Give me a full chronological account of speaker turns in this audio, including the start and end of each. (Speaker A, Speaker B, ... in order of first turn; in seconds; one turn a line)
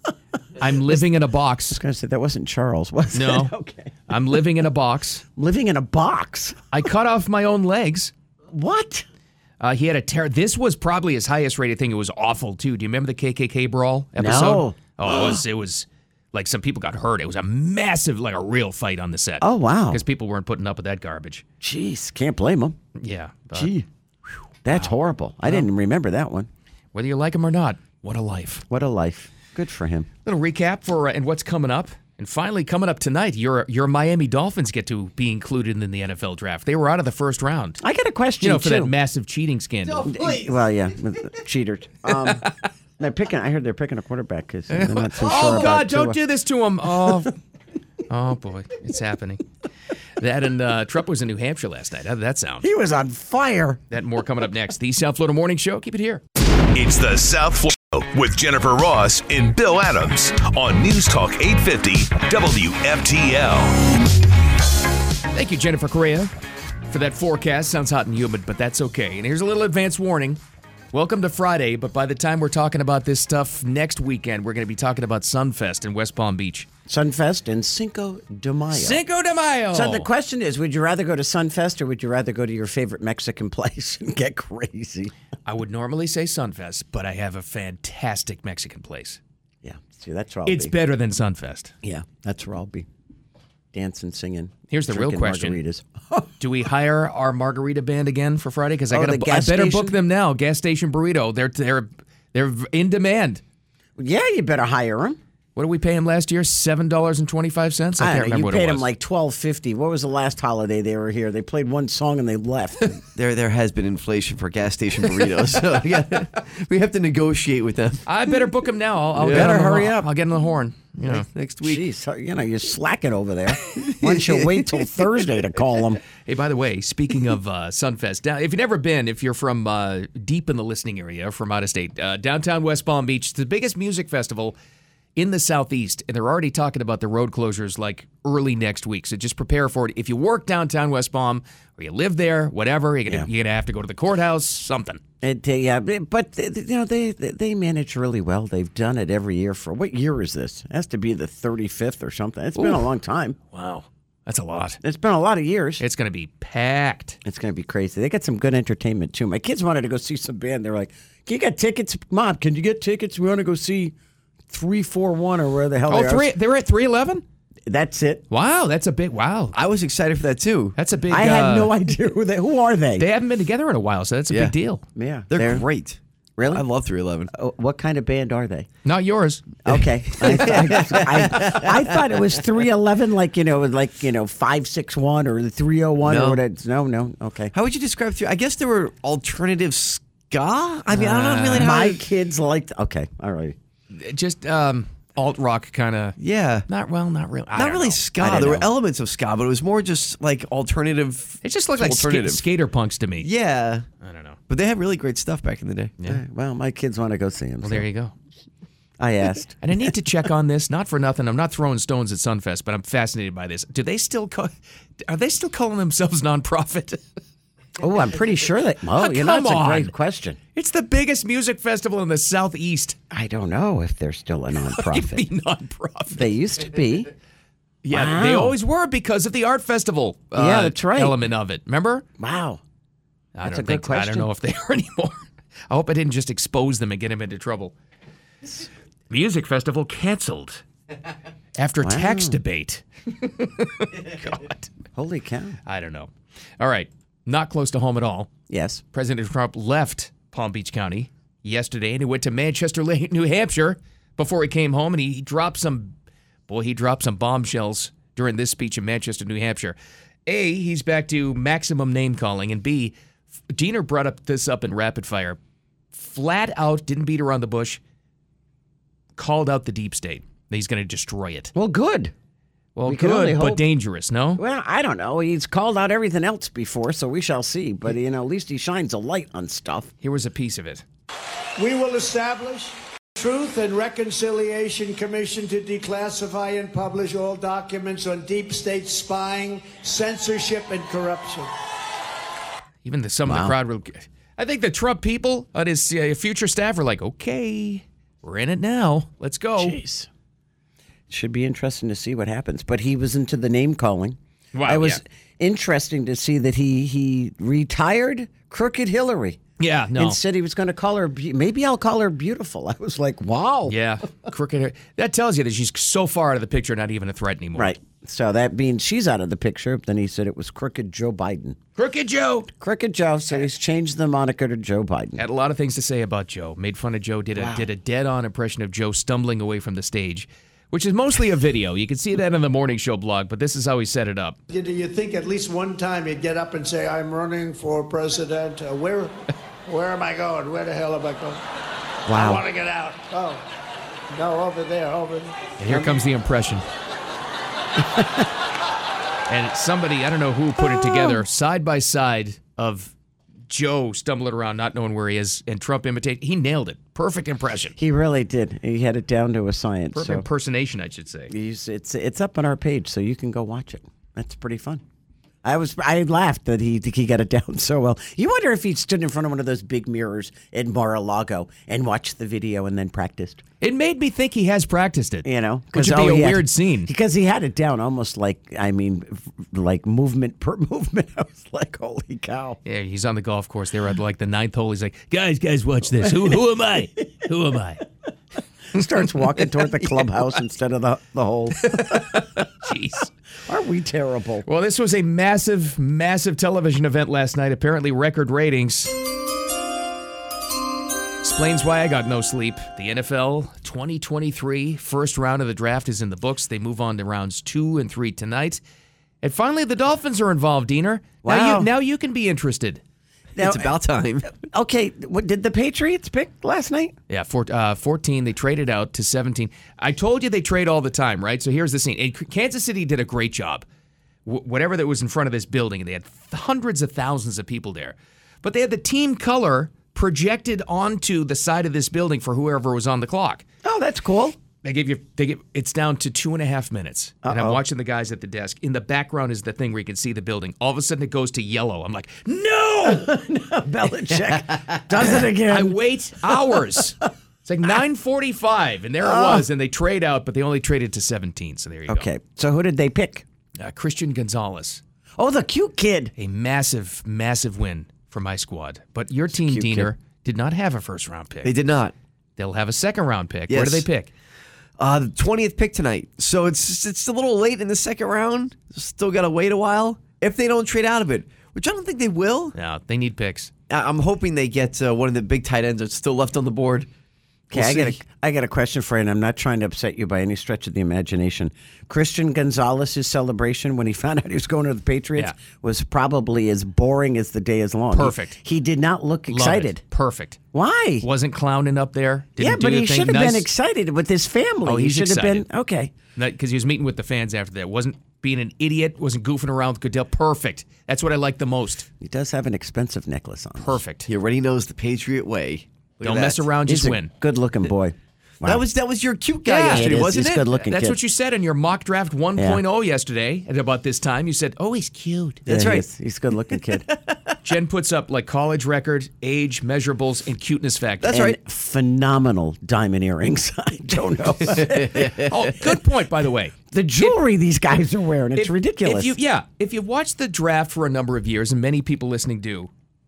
Speaker A: 0.6-1.8
Speaker B: 1.7-4.0
Speaker A: 3.1-3.5
Speaker A: 4.1-5.2
Speaker B: 5.4-6.6
Speaker A: 6.7-8.1
Speaker B: 8.5-9.1
Speaker A: 9.6-21.4
Speaker B: 14.2-15.4
Speaker B: 19.4-20.0
Speaker B: 21.6-22.8
Speaker A: 23.0-23.7
Speaker B: 23.5-23.9
Speaker B: 24.6-26.5
Speaker A: 24.7-25.7
Speaker A: 26.9-28.6
Speaker B: 28.7-30.1
Speaker A: 30.2-37.8
Speaker B: 37.8-38.9
Speaker A: 38.4-40.1
Speaker B: 40.0-46.2
Speaker A: 42.1-42.5
Speaker A: 44.7-47.3
Speaker A: 48.1-49.4
Speaker A: 50.2-52.7
Speaker B: 52.6-53.8
Speaker A: 53.9-56.2
Speaker C: 56.7-63.9
Speaker A: 65.3-66.3
Speaker A: 66.9-70.4
Speaker A: 70.9-76.7
Speaker B: 76.9-79.0
Speaker A: 78.7-80.1
Speaker B: 79.7-85.1
Speaker A: 85.5-89.2
Speaker B: 89.6-90.8
Speaker A: 90.5-91.7
Speaker B: 91.8-92.9
Speaker B: 93.7-96.3
Speaker A: 94.7-95.6
Speaker A: 96.4-103.4
Speaker B: 98.9-100.0
Speaker B: 104.0-105.2
Speaker A: 105.6-108.9
Speaker B: 108.0-113.0
Speaker D: 113.1-118.4
Speaker A: 118.1-121.3
Speaker D: 119.2-119.5
Speaker B: 119.3-120.1
Speaker D: 121.0-121.8
Speaker B: 121.6-126.0
Speaker D: 123.8-125.0
Speaker A: 126.3-134.6
Speaker A: 135.2-145.0
Speaker B: 145.2-153.4
Speaker A: 152.6-152.9
Speaker A: 153.5-154.8
Speaker B: 154.8-155.8
Speaker A: 155.8-157.2
Speaker B: 157.2-163.9
Speaker B: 164.5-166.3
Speaker A: 165.9-167.2
Speaker B: 167.7-168.2
Speaker A: 168.3-169.6
Speaker D: 169.5-170.8
Speaker A: 170.8-171.7
Speaker B: 171.1-173.1
Speaker A: 173.0-174.8
Speaker B: 175.0-175.7
Speaker D: 175.3-176.0
Speaker B: 176.4-176.6
Speaker D: 176.5-177.3
Speaker B: 177.3-178.7
Speaker A: 178.8-179.6
Speaker B: 179.7-187.5
Speaker D: 180.2-181.9
Speaker D: 186.1-186.4
Speaker D: 187.5-192.0
Speaker A: 190.9-191.7
Speaker B: 191.6-193.6
Speaker A: 193.9-196.2
Speaker D: 196.2-196.7
Speaker A: 196.7-198.0
Speaker D: 197.6-202.4
Speaker B: 198.2-198.7
Speaker A: 201.4-203.3
Speaker D: 203.2-203.9
Speaker A: 204.0-204.4
Speaker D: 204.5-205.9
Speaker B: 206.0-207.9
Speaker A: 207.6-208.1
Speaker B: 209.0-209.6
Speaker A: 209.6-217.0
Speaker B: 217.8-220.4
Speaker A: 219.0-219.9
Speaker A: 220.6-223.0
Speaker B: 223.1-225.3
Speaker A: 224.7-226.3
Speaker B: 226.1-227.1
Speaker A: 227.8-232.1
Speaker B: 227.9-228.6
Speaker B: 230.3-231.2
Speaker B: 232.2-232.6
Speaker A: 233.3-237.7
Speaker B: 233.4-234.3
Speaker A: 239.1-240.6
Speaker A: 241.6-244.7
Speaker B: 241.8-242.4
Speaker B: 244.9-245.6
Speaker A: 245.7-248.3
Speaker B: 248.5-248.8
Speaker A: 248.9-255.9
Speaker A: 256.5-262.9
Speaker A: 263.5-265.4
Speaker A: 265.9-267.8
Speaker A: 269.2-271.5
Speaker B: 271.6-272.1
Speaker A: 272.8-274.4
Speaker B: 272.9-273.6
Speaker B: 274.4-279.9
Speaker A: 280.0-280.8
Speaker E: 281.6-291.5
Speaker A: 292.8-299.8
Speaker B: 293.2-293.6
Speaker B: 299.6-300.1
Speaker B: 301.1-309.4
Speaker A: 304.5-305.0
Speaker A: 309.6-310.2
Speaker B: 309.9-313.8
Speaker A: 313.7-317.8
Speaker B: 317.6-321.6
Speaker A: 321.8-322.5
Speaker B: 322.6-325.2
Speaker A: 325.2-334.4
Speaker B: 327.4-327.7
Speaker E: 334.5-341.4
Speaker B: 342.1-342.4
Speaker E: 342.1-343.4
Speaker E: 344.1-345.9
Speaker A: 345.6-346.6
Speaker A: 349.3-352.9
Speaker A: 353.5-357.8
Speaker B: 357.8-360.2
Speaker A: 359.9-361.3
Speaker B: 361.3-364.8
Speaker B: 365.4-373.4
Speaker A: 373.6-376.9
Speaker B: 375.2-382.6
Speaker A: 382.6-387.9
Speaker B: 386.0-386.4
Speaker B: 388.7-392.2
Speaker A: 391.6-393.1
Speaker B: 393.5-394.4
Speaker A: 394.4-399.0
Speaker A: 401.2-408.6
Speaker A: 409.2-412.8
Speaker B: 411.2-411.7
Speaker D: 413.4-414.3
Speaker B: 413.4-413.7
Speaker B: 414.4-416.9
Speaker A: 417.1-423.6
Speaker A: 424.3-433.4
Speaker B: 433.6-434.4
Speaker A: 434.6-443.2
Speaker B: 437.2-437.6
Speaker B: 442.9-446.8
Speaker A: 445.1-452.1
Speaker B: 449.0-449.4
Speaker B: 451.9-453.2
Speaker A: 453.6-454.8
Speaker B: 455.2-456.1
Speaker A: 456.2-461.5
Speaker B: 459.3-459.9
Speaker D: 461.4-461.9
Speaker A: 462.4-464.1
Speaker D: 463.5-463.9
Speaker D: 464.8-472.6
Speaker A: 472.6-473.5
Speaker D: 473.7-476.9
Speaker B: 477.5-489.8
Speaker D: 477.5-478.0
Speaker A: 487.9-488.4
Speaker A: 489.3-490.4
Speaker B: 490.5-491.1
Speaker A: 491.0-493.5
Speaker B: 492.4-495.9
Speaker A: 494.6-495.5
Speaker A: 496.2-501.9
Speaker B: 502.0-503.8
Speaker A: 503.6-504.1
Speaker D: 504.1-506.5
Speaker A: 506.0-507.1
Speaker B: 506.7-508.6
Speaker D: 508.4-510.5
Speaker A: 509.4-510.0
Speaker B: 509.6-511.0
Speaker A: 510.5-515.5
Speaker B: 512.4-512.6
Speaker B: 515.5-516.9
Speaker D: 515.5-515.9
Speaker A: 517.4-521.1
Speaker D: 521.0-521.4
Speaker B: 521.1-525.4
Speaker D: 524.5-525.4
Speaker A: 525.2-527.1
Speaker B: 526.7-529.2
Speaker A: 528.4-532.7